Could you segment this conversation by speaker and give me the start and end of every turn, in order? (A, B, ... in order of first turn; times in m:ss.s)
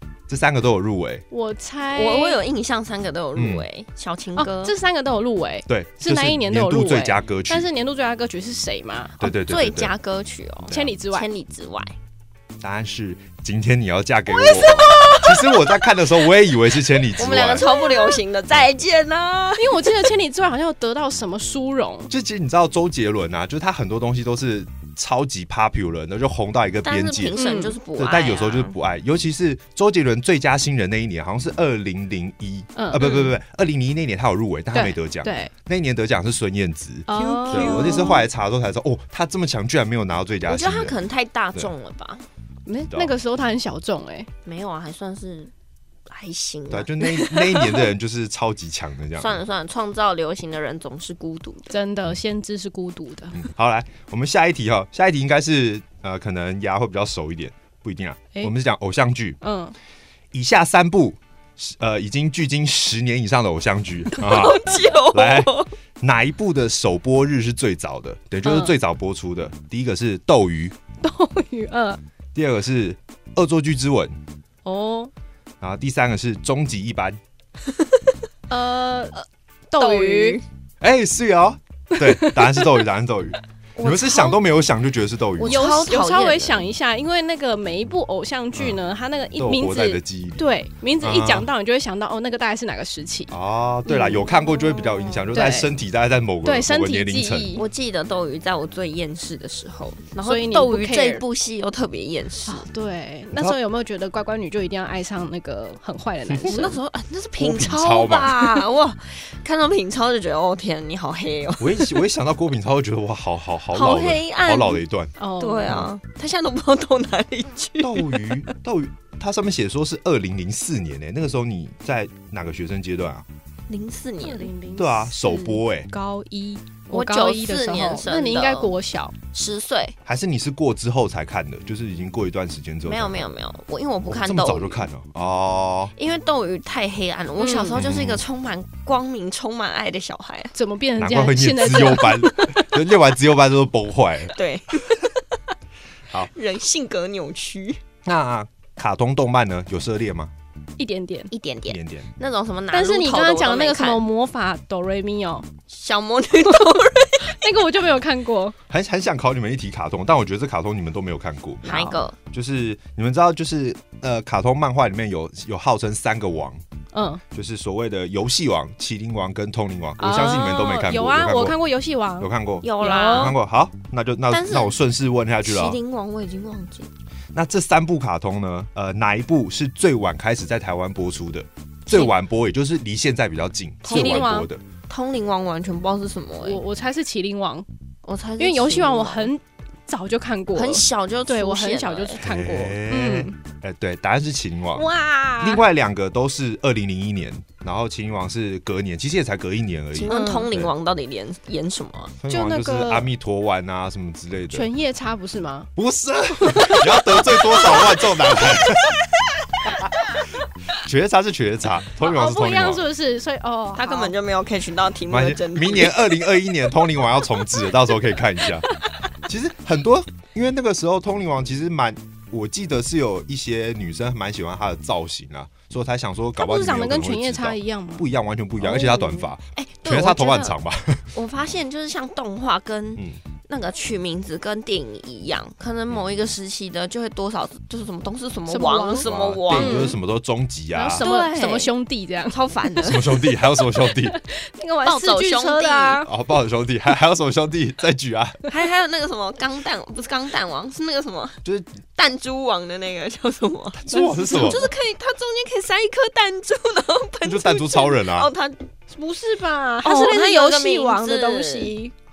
0:00.3-0:01.2 A
0:01.3-0:02.4 B
0:01.9-0:04.7 C
0:03.4-0:03.6 A
0:04.4-0:09.2 B
0:05.7-0:07.6 A
0:09.2-0:09.9 A
0:09.2-0:11.9 C
0:10.7-0:11.3 B
0:12.6-0:17.7 A
0:14.3-0:16.0 C
0:16.9-0:20.1 C
0:19.6-0:22.1 B
0:22.1-0:27.4 A
0:26.8-0:28.7 C
0:27.4-0:27.8 B
0:28.0-0:41.0 A
0:32.8-0:33.3 B
0:34.7-0:35.5 B
0:37.1-0:38.2 B
0:37.1-0:38.3 C
0:40.4-0:42.2 C
0:42.6-0:44.3 B
0:44.4-0:45.5 C
0:46.1-0:47.7 C
0:46.7-0:49.4 A
0:49.2-0:51.7 C
0:51.7-0:53.4 B
0:53.3-0:59.4 A
0:59.4-0:59.7 B
1:00.3-1:10.7 A
1:04.1-1:05.7 C
1:08.4-1:08.7 B
1:11.0-1:12.0 B
1:12.3-1:14.1 A
1:14.6-1:15.1 B
1:15.6-1:17.2 A
1:17.7-1:18.0 C
1:18.5-1:19.2 B
1:19.7-1:20.4 B
1:19.8-1:20.4 C
1:20.8-1:25.6 A
1:22.2-1:22.8 B
1:23.8-1:24.4 C
1:25.4-1:26.6 C
1:25.4-1:33.3 B
1:29.4-1:30.4 A
1:31.0-1:31.5 A
1:33.3-1:37.6 A
1:33.8-1:34.4 B
1:34.1-1:35.3 C
1:35.3-1:35.7 B
1:36.4-1:37.6 B
1:37.5-1:42.6 C
1:40.2-1:41.2 B
1:42.5-1:46.8 B
1:46.3-1:46.6 A
1:46.4-1:52.0 C
1:47.4-1:48.6 A
1:51.6-1:55.1 A
1:53.7-1:54.8 C
1:55.2-1:55.8 B
1:55.4-1:58.4 C
1:57.8-2:03.2 A
2:03.7-2:04.5 C
2:04.2-2:09.1 B
2:04.7-2:05.9 A
2:06.9-2:08.7 C
2:09.3-2:10.0 C
2:10.0-2:13.3 A
2:12.8-2:14.8 C
2:14.1-2:15.9 A
2:16.0-2:20.5 C
2:17.4-2:17.8 B
2:17.7-2:18.2 A
2:20.5-2:22.7 B
2:21.0-2:24.4 A
2:24.3-2:25.1 C
2:26.3-2:27.8 C
2:28.0-2:30.3 A
2:30.8-2:31.3 B
2:31.3-2:34.0 C
2:31.7-2:32.1 A
2:32.7-2:35.5 B
2:35.7-2:37.5 C
2:36.6-2:38.6 B
2:38.7-2:46.6 A
2:41.6-2:42.2 C
2:46.9-2:47.2 B
2:47.3-2:51.6 A
2:50.0-2:53.4 B
2:52.2-2:55.8 A
2:52.6-2:53.4 C
2:54.3-2:54.8 C
2:55.4-2:56.9 C
2:57.3-3:04.6 A
3:03.8-3:04.4 C
3:03.9-3:04.5 B
3:04.9-3:06.6 C
3:06.4-3:07.6 B
3:08.0-3:09.3 C
3:08.4-3:13.3 B
3:10.5-3:12.2 C
3:12.2-3:14.8 A
3:14.7-3:15.6 B
3:15.4-3:20.7 A
3:19.9-3:22.1 C
3:20.1-3:20.5 B
3:22.2-3:24.7 A
3:22.3-3:23.1 B
3:24.5-3:25.7 B
3:25.8-3:29.0 A
3:27.3-3:28.8 C
3:30.8-3:32.8 A
3:32.0-3:34.1 B
3:33.7-3:36.2 C
3:35.1-3:38.7 A
3:39.2-3:51.1 A
3:46.4-3:48.0 B
3:48.6-3:50.6 C
3:51.1-3:59.9 C
3:58.5-4:00.0 B
3:59.0-4:01.0 A
4:00.7-4:02.4 B
4:01.0-4:01.7 C
4:02.3-4:03.2 C
4:02.8-4:04.2 A
4:04.1-4:06.1 B
4:04.8-4:06.0 C
4:06.0-4:08.4 A
4:08.5-4:11.4 C
4:11.4-4:11.8 A
4:12.0-4:18.7 C
4:13.7-4:14.6 A
4:13.9-4:14.7 B
4:17.2-4:18.3 A
4:18.9-4:21.9 B
4:19.8-4:21.7 C